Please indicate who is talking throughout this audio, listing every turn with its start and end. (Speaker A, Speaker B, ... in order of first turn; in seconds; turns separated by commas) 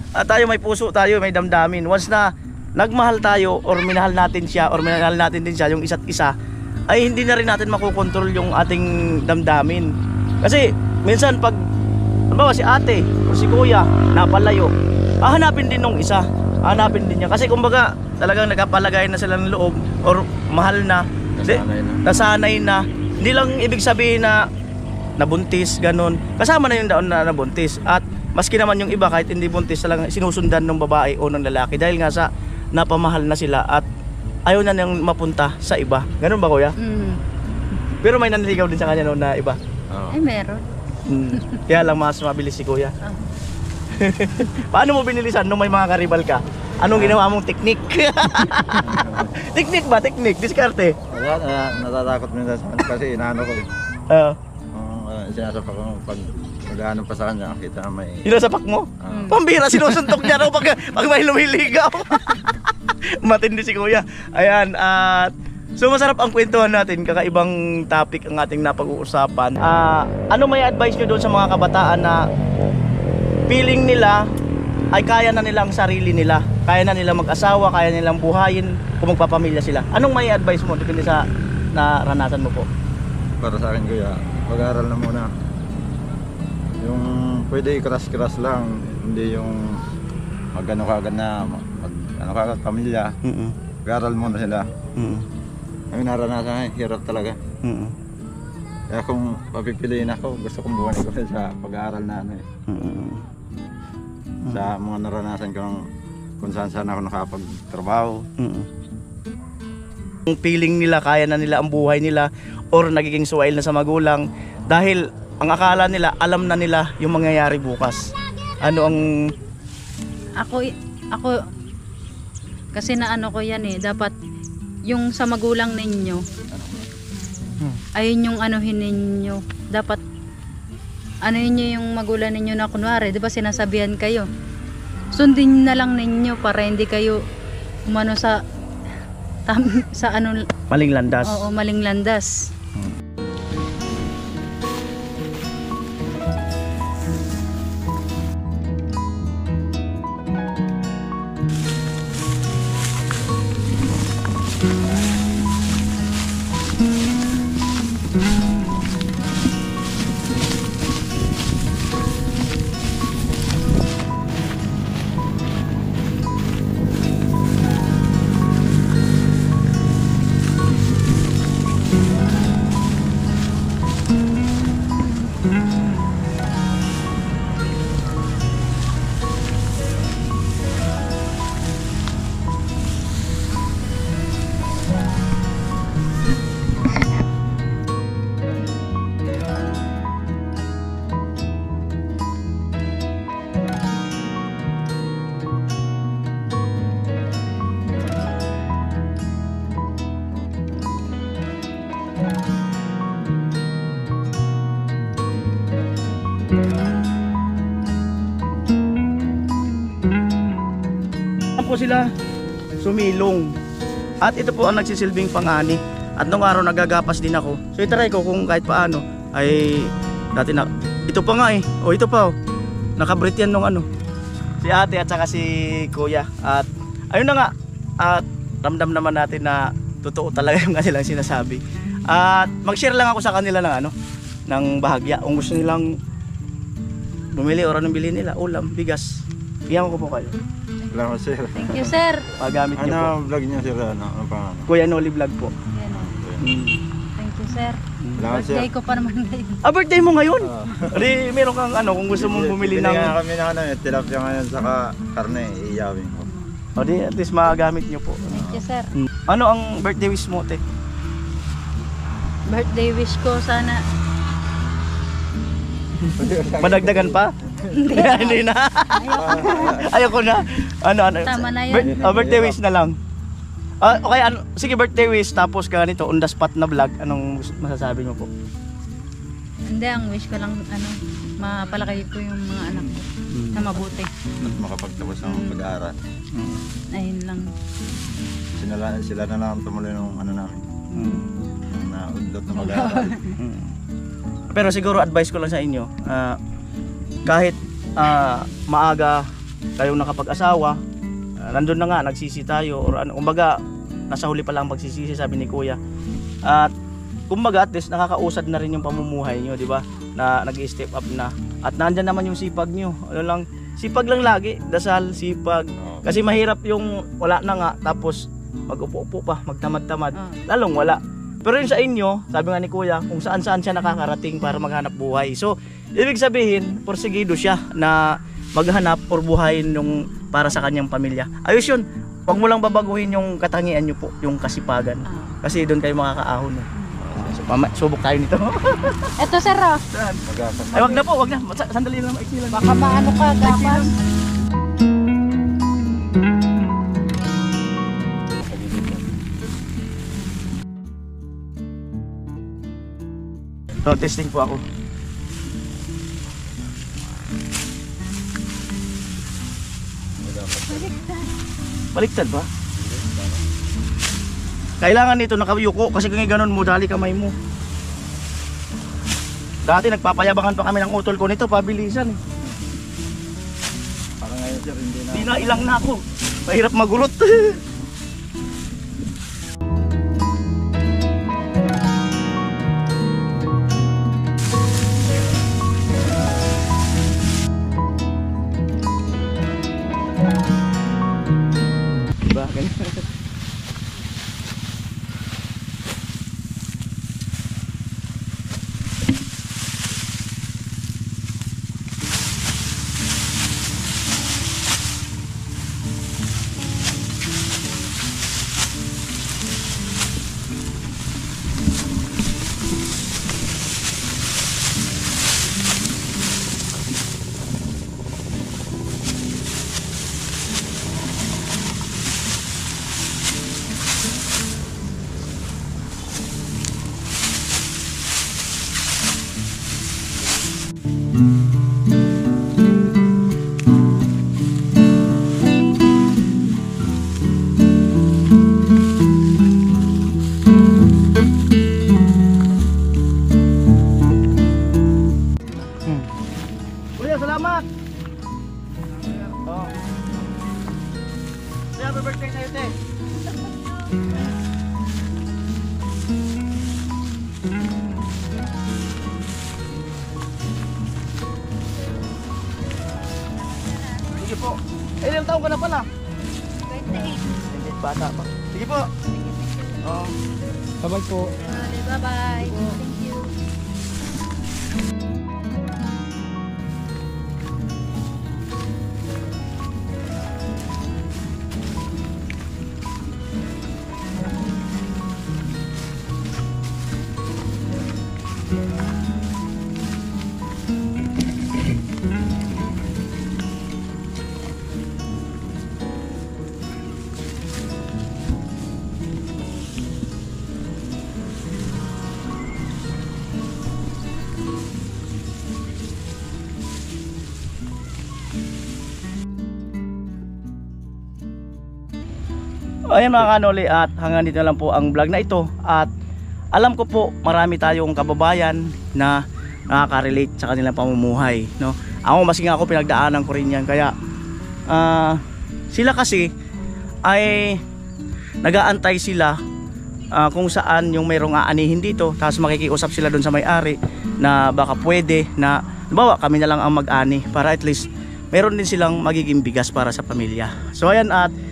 Speaker A: 0.2-6.3, Speaker A: 6.9-9.9, Speaker A: 10.4-11.6, Speaker A: 12.3-24.5, Speaker B: 21.4-22.0, Speaker A: 25.2-33.9, Speaker A: 34.5-36.8, Speaker C: 36.8-37.2, Speaker A: 38.0-39.6, Speaker B: 39.9-40.2, Speaker C: 40.1-40.6, Speaker A: 41.1-43.0, Speaker C: 41.3-41.6, Speaker A: 43.9-51.0, Speaker B: 46.9-47.2, Speaker B: 48.8-49.3, Speaker B: 51.1-53.7, Speaker A: 54.1-54.4, Speaker B: 54.7-58.3, Speaker A: 58.2-72.3, Speaker B: 59.0-59.4, Speaker C: 59.1-59.4, Speaker A: 73.5-74.2, Speaker A: 74.9-82.7, Speaker B: 83.4-85.3, Speaker B: 86.8-89.8, Speaker B: 90.5-93.2, Speaker A: 93.2-93.5, Speaker B: 93.9-94.7, Speaker A: 95.0-95.3, Speaker B: 95.9-97.4, Speaker A: 97.6-97.9, Speaker B: 98.9-102.4, Speaker A: 102.7-103.2, Speaker B: 104.5-105.8, Speaker B: 106.4-108.3, Speaker A: 108.4-108.7, Speaker A: 110.3-118.1, Speaker A: 118.6-119.2, Speaker C: 120.4-121.3, Speaker C: 122.7-124.1, Speaker C: 124.9-126.2, Speaker B: 126.5-126.9, Speaker C: 128.0-130.0, Speaker C: 131.2-134.3, Speaker C: 135.1-137.2, Speaker C: 137.9-138.4, Speaker C: 139.5-140.4, Speaker A: 140.7-141.5, Speaker C: 141.3-142.4, Speaker A: 211.6-212.1, Speaker A: 212.8-213.5, Speaker A: 214.2-222.3, Speaker A: 223.0-223.9, Speaker A: 224.6-233.9, Speaker A: 234.5-236.0, Speaker A: 237.3-240.4, Speaker B: 240.9-242.0, Speaker C: 241.6-242.3, Speaker A: 242.4-243.1, Speaker B: 242.8-244.7, Speaker A: 244.7-245.5, Speaker C: 245.7-246.2, Speaker B: 245.9-246.6, Speaker A: 246.4-246.8, Speaker C: 247.2-249.6, Speaker A: 248.0-248.2, Speaker B: 248.2-248.7, Speaker A: 249.6-253.2, Speaker B: 250.4-251.1, Speaker B: 252.1-256.3, Speaker A: 256.8-258.4, Speaker B: 258.3-258.6, Speaker C: 258.3-258.9, Speaker A: 258.9-260.6, Speaker C: 262.5-263.8, Speaker A: 266.1-267.3, Speaker B: 266.2-267.9, Speaker C: 267.7-270.0, Speaker A: 267.9-272.9, Speaker B: 269.1-270.0, Speaker C: 271.2-272.1, Speaker B: 271.7-272.6, Speaker A: 273.8-278.3, Speaker C: 279.7-284.1, Speaker A: 283.3-283.7, Speaker B: 284.4-285.9, Speaker C: 285.2-285.6, Speaker A: 286.3-286.6, Speaker C: 286.9-287.5, Speaker B: 288.6-290.7, Speaker C: 290.9-291.2, Speaker A: 290.9-291.3, Speaker B: 291.7-293.2, Speaker C: 292.5-293.4, Speaker A: 293.4-293.7, Speaker A: 294.5-296.4, Speaker A: 297.3-299.2, Speaker A: 299.8-300.8, Speaker A: 301.5-303.6, Speaker A: 304.1-305.8, Speaker A: 306.5-306.7, Speaker A: 307.3-339.1, Speaker B: 315.8-316.1, Speaker C: 335.1-335.4, Speaker C: 336.8-337.0, Speaker C: 339.2-339.8, Speaker A: 339.9-340.2, Speaker B: 340.3-341.1, Speaker A: 340.7-342.8, Speaker C: 342.5-343.9, Speaker A: 343.4-343.9, Speaker B: 348.4-349.0, Speaker A: 353.9-354.6, Speaker B: 360.2-361.0, Speaker C: 360.7-361.3, Speaker A: 361.9-362.5, Speaker B: 362.8-363.5, Speaker A: 364.8-367.3, Speaker A: 369.6-372.2, Speaker B: 374.2-375.8, Speaker A: 375.1-377.6, Speaker A: 392.2-393.1, Speaker A: 447.0-447.7, Speaker A: 449.1-449.7, Speaker A: 451.8-452.8, Speaker C: 463.6-464.1, Speaker A: 464.1-465.9, Speaker C: 466.7-467.3, Speaker A: 467.4-468.9, Speaker C: 469.1-469.9, Speaker A: 469.8-470.1, Speaker C: 471.0-473.3, Speaker A: 512.9-515.9, Speaker A: 516.5-519.2, Speaker A: 519.7-523.9, Speaker A: 524.7-525.2, Speaker A: 525.7-526.3, Speaker A: 527.0-527.6, Speaker A: 528.4-529.4, Speaker A: 530.1-541.3